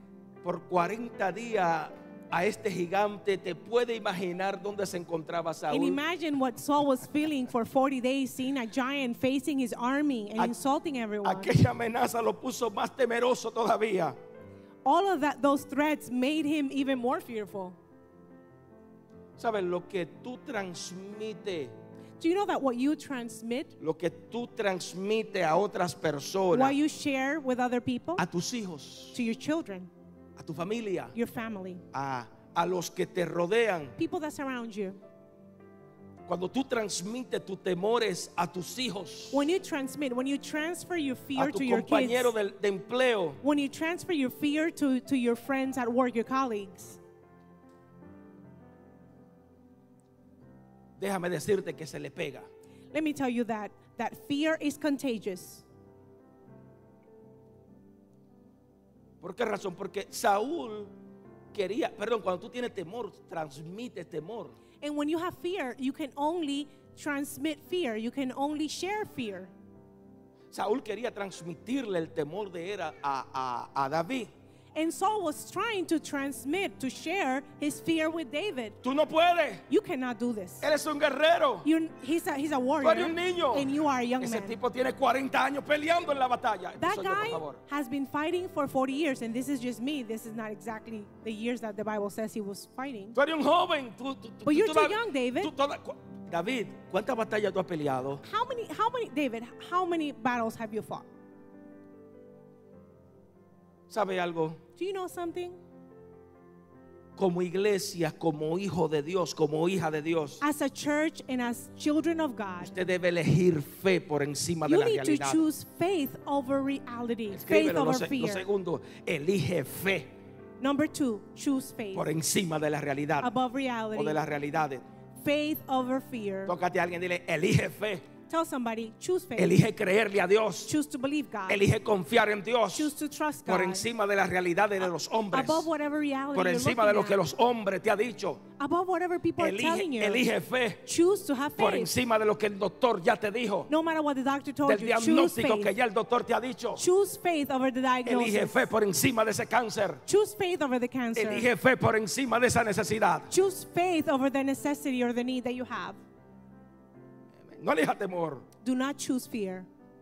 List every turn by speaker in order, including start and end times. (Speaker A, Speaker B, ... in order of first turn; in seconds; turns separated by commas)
Speaker A: 0.4-6.0, Speaker B: 5.7-11.6, Speaker A: 11.2-14.2, Speaker B: 14.8-17.8, Speaker A: 19.4-21.7, Speaker B: 22.2-23.7, Speaker A: 23.8-26.8, Speaker B: 26.5-28.2, Speaker A: 28.2-29.1, Speaker B: 29.1-29.9, Speaker A: 30.4-31.1, Speaker B: 31.1-31.8, Speaker A: 31.9-34.0, Speaker B: 34.0-35.0, Speaker A: 36.3-39.5, Speaker B: 39.3-42.3, Speaker A: 41.4-43.4, Speaker B: 43.4-47.0, Speaker A: 51.0-52.5, Speaker B: 52.9-55.6, Speaker A: 59.2-60.9, Speaker A: 61.5-64.6, Speaker B: 64.8-69.5, Speaker A: 70.5-74.3, Speaker B: 74.7-78.8, Speaker A: 78.8-79.6, Speaker B: 79.7-80.6, Speaker A: 80.6-81.7, Speaker B: 81.6-84.6, Speaker A: 82.8-83.7, Speaker A: 84.2-87.6, Speaker B: 86.8-93.2, Speaker A: 93.1-98.2, Speaker B: 94.4-95.5, Speaker B: 98.2-101.0, Speaker A: 103.9-104.6, Speaker B: 104.8-105.6, Speaker A: 107.2-110.4, Speaker B: 110.4-112.8, Speaker A: 112.6-115.4, Speaker B: 114.6-118.4, Speaker A: 117.3-120.1, Speaker B: 120.6-122.0, Speaker A: 121.9-123.3, Speaker B: 123.2-124.2, Speaker A: 123.9-124.8, Speaker B: 125.2-126.5, Speaker A: 126.5-128.1, Speaker B: 128.3-129.6, Speaker A: 129.3-130.7, Speaker B: 130.7-131.6, Speaker A: 131.5-132.9, Speaker B: 132.7-133.9, Speaker A: 133.4-135.7, Speaker B: 135.3-137.2, Speaker A: 136.3-138.4, Speaker B: 138.6-140.2, Speaker A: 139.4-140.8, Speaker B: 140.8-141.9, Speaker A: 141.6-143.7, Speaker B: 143.7-145.7, Speaker A: 144.6-146.8, Speaker B: 146.8-148.7, Speaker A: 148.0-150.0, Speaker B: 150.1-151.5, Speaker A: 151.1-153.3, Speaker B: 153.3-156.0, Speaker A: 157.4-158.4, Speaker B: 158.6-159.7